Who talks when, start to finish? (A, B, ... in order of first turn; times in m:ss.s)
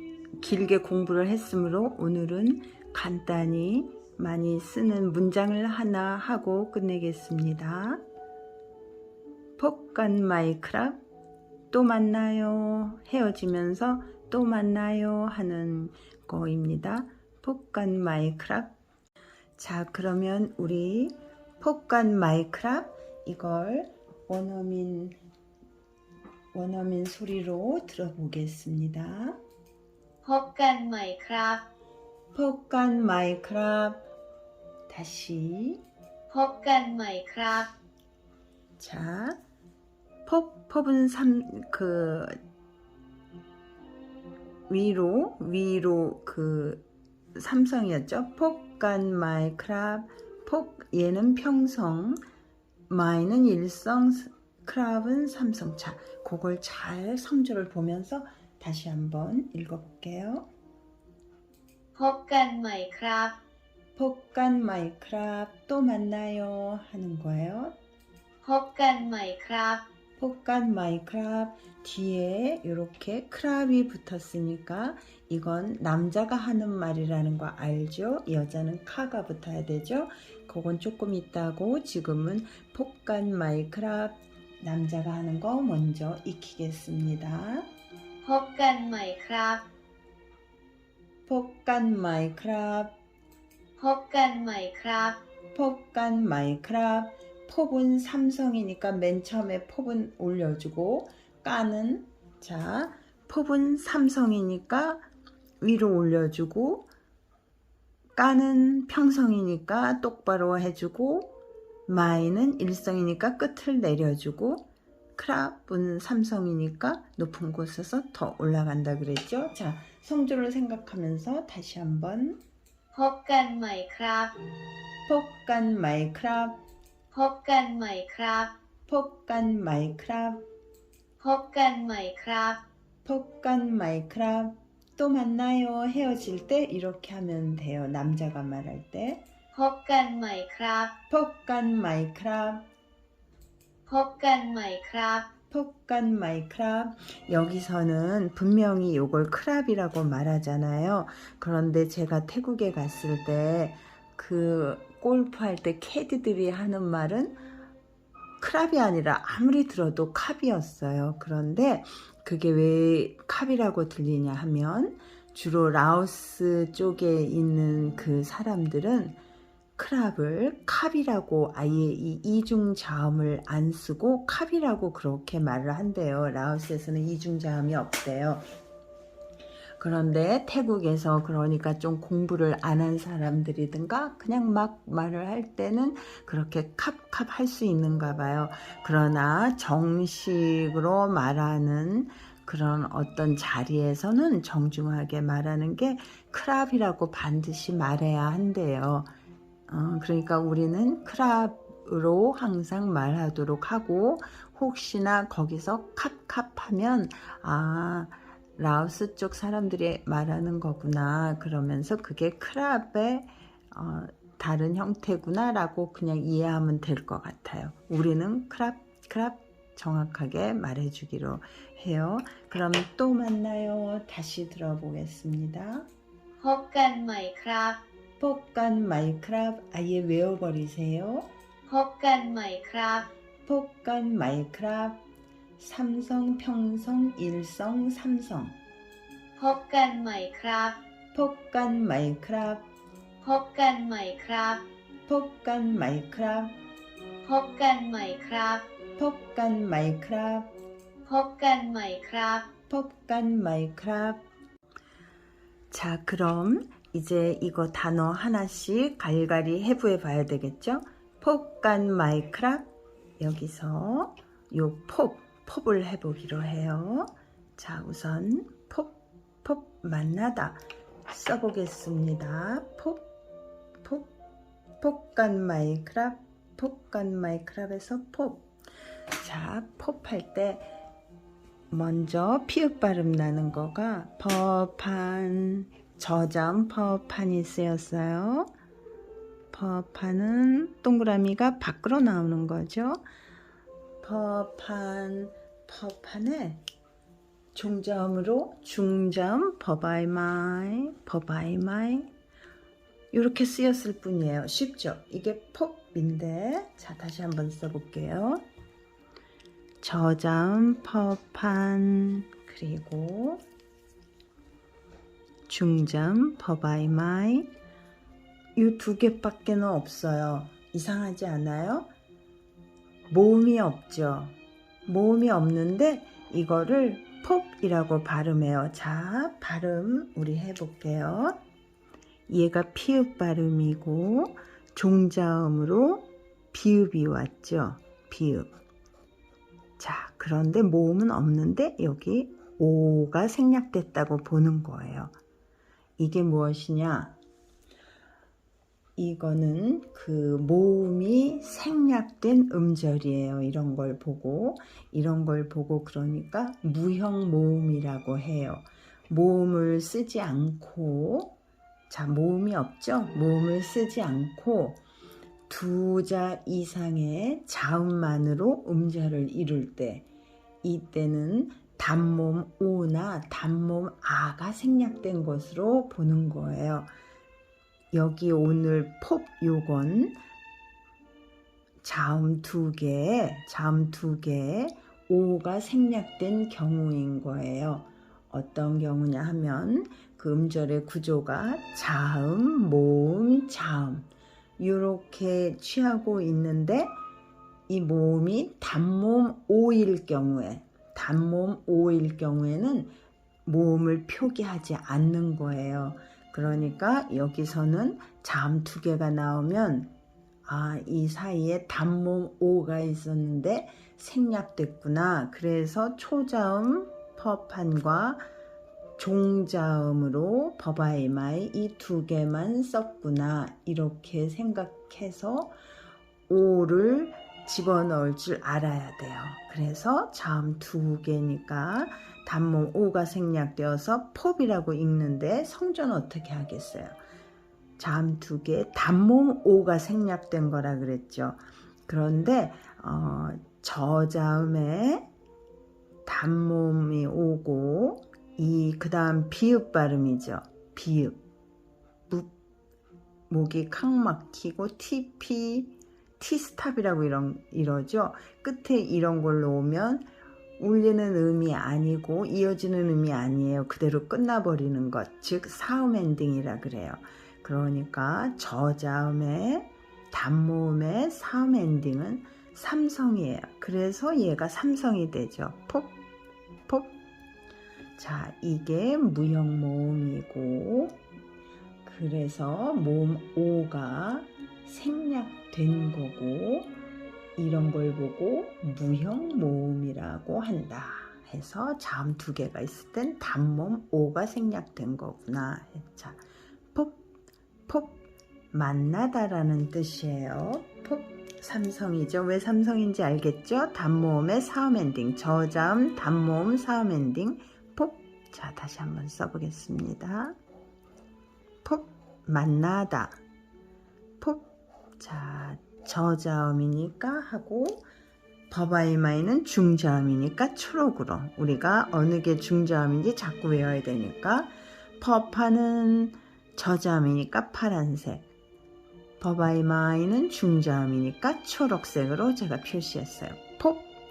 0:00.4-0:08.0 A
0:09.6-0:11.0 A
0:11.7-0:18.7 A
0:19.6-0:25.2 A
0:26.5-0:29.4 A
0:30.2-0:31.7 B
0:32.3-0:34.1 A
0:34.9-0:35.8 A
0:36.3-0:37.7 B
0:38.8-0:39.4 A
0:40.2-0:42.4 A
0:44.7-0:46.8 A
0:47.4-0:52.2 A
0:52.9-1:00.5 A
1:02.0-1:03.4 B
1:04.0-1:07.8 A
1:08.4-1:09.9 B
1:10.2-1:27.7 A
1:28.2-1:29.7 B
1:31.3-1:33.0 A
1:33.8-1:35.2 B
1:35.5-1:45.0 A
1:45.6-1:46.9 A
1:48.2-1:51.3 A
1:51.9-2:02.4 A
2:02.9-2:04.3 B
2:05.1-2:06.6 A
2:07.1-2:08.5 B
2:08.9-2:10.4 A
2:11.2-2:12.6 B
2:13.0-2:19.2 A
2:19.5-2:21.0 B
2:21.1-2:22.7 A
2:23.9-2:25.3 B
2:25.5-2:37.4 A
2:38.4-2:49.2 A
2:49.8-2:58.4 A
2:59.8-3:19.1 A
3:19.7-3:45.9 A
3:46.4-3:47.8 B
3:48.2-3:51.3 A
3:51.7-3:53.1 B
3:53.5-3:55.0 A
3:55.6-3:58.6 A
3:59.4-4:00.8 B
4:01.1-4:02.7 A
4:03.2-4:04.7 B
4:05.1-4:06.6 A
4:07.2-4:08.7 B
4:09.0-4:10.5 A
4:11.0-4:12.5 B
4:12.7-4:14.2 A
4:15.7-4:33.1 A
4:33.8-4:34.1 A
4:34.8-4:38.5 A
4:39.2-4:40.7 A
4:41.7-4:48.5 A
4:49.5-4:53.0 A
4:54.0-4:56.6 A
4:57.5-5:02.1 A
5:03.1-5:08.4 A
5:09.8-5:13.4 A
5:15.5-5:17.5 A
5:18.6-5:21.9 A
5:23.1-5:31.4 A
5:32.3-5:38.5 A
5:39.8-5:45.1 A
5:46.0-5:47.2 A
5:49.0-6:01.4 A
6:01.9-6:04.8 A
6:05.5-6:10.1 A
6:10.6-6:16.9 A
6:17.9-6:20.2 A
6:21.8-6:34.1 A
6:34.6-6:37.0 A
6:37.7-6:42.9 A
6:43.5-6:49.9 A
6:50.5-6:58.2 A
6:59.0-7:05.6 A
7:06.3-7:17.0 A
7:17.8-7:25.1 A
7:26.1-7:31.2 A
7:33.3-7:40.1 A
7:40.6-7:56.0 A
7:56.7-7:56.9 A
7:58.0-8:01.0 A
8:01.8-8:06.7 A
8:07.4-8:16.2 A
8:17.7-8:18.0 A
8:18.5-8:30.4 A
8:31.6-8:33.2 A
8:34.2-8:34.5 A
8:35.0-8:37.8 A
8:38.5-8:48.3 A
8:49.2-8:53.9 A